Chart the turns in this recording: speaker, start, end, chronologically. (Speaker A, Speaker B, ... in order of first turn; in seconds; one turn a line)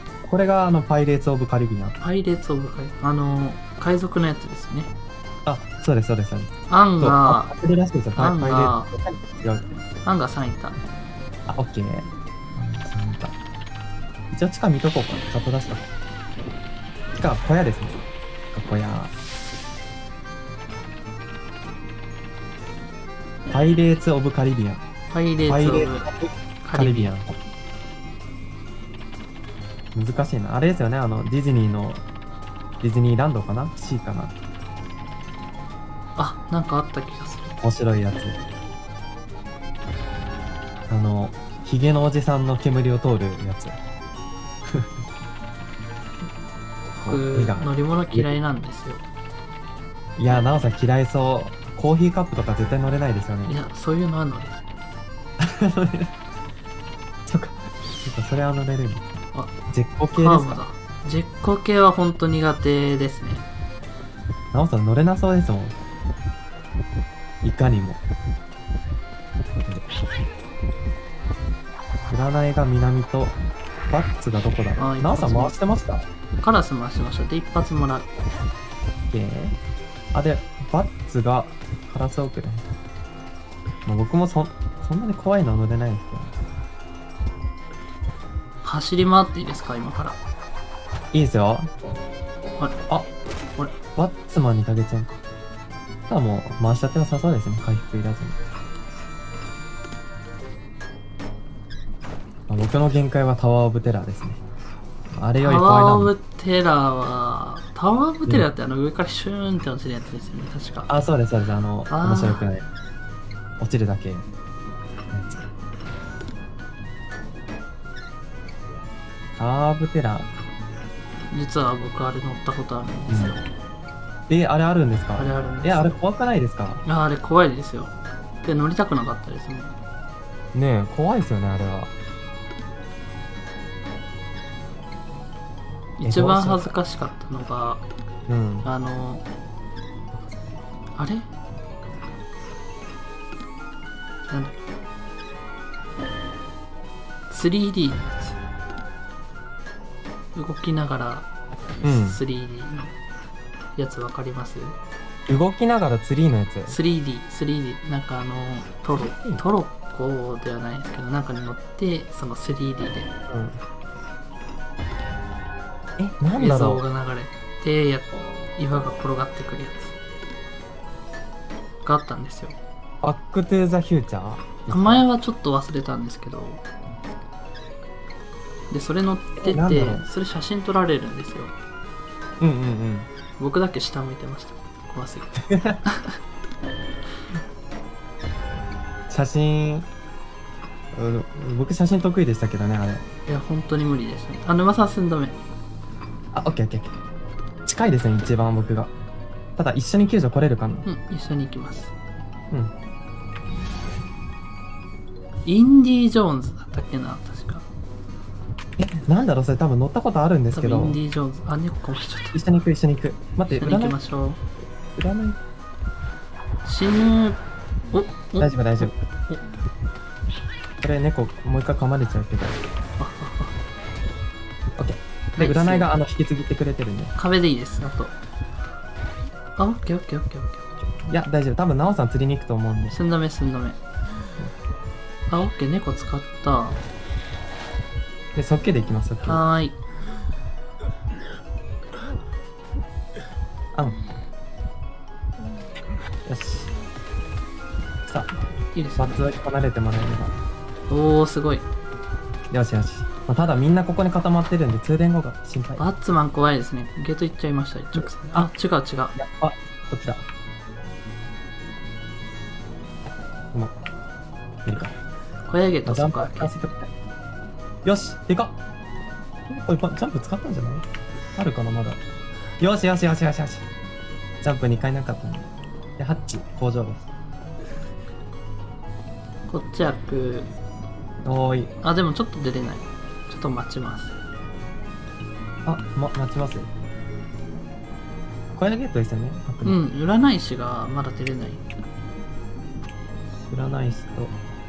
Speaker A: 0.2-2.0
Speaker B: 2.0-4.9
Speaker A: 5.4-9.8
Speaker B: 6.7-7.5
Speaker B: 8.1-8.9
Speaker B: 10.0-10.8
Speaker A: 11.5-13.3
Speaker A: 14.3-15.8
Speaker A: 17.1-18.0
Speaker A: 18.5-19.1
Speaker A: 23.5-24.8
Speaker B: 25.1-26.1
Speaker A: 25.4-27.4
Speaker B: 26.6-27.1
Speaker A: 29.9-32.0
Speaker A: 32.8-34.3
Speaker B: 36.1-37.5
Speaker A: 37.6-38.4
Speaker A: 40.9-43.8
Speaker A: 46.9-48.3
Speaker B: 47.0-49.0
Speaker A: 50.2-53.6
Speaker B: 53.4-54.6
Speaker A: 55.4-56.1
Speaker A: 57.2-59.1
Speaker A: 59.7-60.6
Speaker B: 60.1-63.4
Speaker A: 64.5-65.8
Speaker A: 67.4-68.0
Speaker A: 72.1-73.4
Speaker A: 73.9-76.0
Speaker B: 74.8-75.5
Speaker B: 76.4-78.1
Speaker A: 79.1-79.5
Speaker A: 80.1-82.7
Speaker A: 83.8-86.3
Speaker B: 88.6-90.2
Speaker A: 91.1-91.7
Speaker A: 94.0-95.2
Speaker A: 96.1-98.4
Speaker A: 102.5-104.4
Speaker A: 105.1-106.1
Speaker B: 105.4-110.9
Speaker A: 110.9-112.6
Speaker B: 111.9-112.4
Speaker A: 113.6-114.3
Speaker A: 115.1-115.4
Speaker A: 119.4-120.3
Speaker B: 121.3-123.4
Speaker A: 123.1-123.4
Speaker A: 124.3-126.8
Speaker B: 125.2-126.0
Speaker B: 126.8-129.7
Speaker A: 130.5-131.9
Speaker B: 136.0-137.8
Speaker A: 136.0-136.7
Speaker A: 138.3-138.7
Speaker B: 138.6-139.2
Speaker B: 140.9-141.3
Speaker B: 144.3-144.6
Speaker B: 147.3-148.4
Speaker B: 150.3-151.3
Speaker B: 151.8-152.9
Speaker A: 151.8-152.2
Speaker B: 153.7-154.8
Speaker A: 155.3-156.8
Speaker B: 156.7-163.1
Speaker A: 158.9-159.4
Speaker A: 163.3-163.6
Speaker A: 166.0-166.8
Speaker B: 166.3-169.9
Speaker B: 171.8-172.6
Speaker A: 173.0-175.1
Speaker B: 174.7-176.6
Speaker B: 178.7-181.6
Speaker A: 179.4-180.1
Speaker A: 182.4-183.1
Speaker B: 183.4-186.1
Speaker A: 185.5-185.8
Speaker A: 189.1-189.9
Speaker A: 190.9-193.0
Speaker B: 193.3-195.4
Speaker A: 196.3-196.9
Speaker A: 197.7-198.9
Speaker A: 199.6-200.9
Speaker B: 200.8-201.9
Speaker B: 205.4-207.7
Speaker A: 208.8-211.0
Speaker B: 210.5-212.4
Speaker A: 212.3-214.0
Speaker B: 213.5-214.4
Speaker A: 214.9-215.4
Speaker B: 216.6-219.4
Speaker A: 218.4-218.9
Speaker A: 220.8-222.6
Speaker B: 223.0-223.5
Speaker A: 224.8-227.1
Speaker B: 225.3-225.9
Speaker B: 227.2-228.2
Speaker B: 229.6-230.7
Speaker A: 231.1-233.0
Speaker B: 232.9-233.8
Speaker B: 235.3-236.8
Speaker A: 238.3-239.4
Speaker B: 239.2-239.8
Speaker A: 246.3-246.7
Speaker A: 248.1-248.3
Speaker B: 248.7-249.3
Speaker A: 248.9-250.3
Speaker B: 250.9-251.7
Speaker A: 252.5-255.8
Speaker B: 255.8-259.2
Speaker A: 257.9-258.4
Speaker A: 259.1-260.2
Speaker A: 264.6-264.9
Speaker B: 265.4-266.5
Speaker A: 265.9-266.9
Speaker A: 267.8-268.6
Speaker A: 269.5-272.0
Speaker A: 272.6-273.6
Speaker A: 274.4-277.1
Speaker B: 279.5-280.5
Speaker A: 281.2-281.7
Speaker B: 281.8-284.1
Speaker A: 285.6-286.7
Speaker A: 288.5-289.8
Speaker B: 289.6-291.6
Speaker A: 293.5-294.3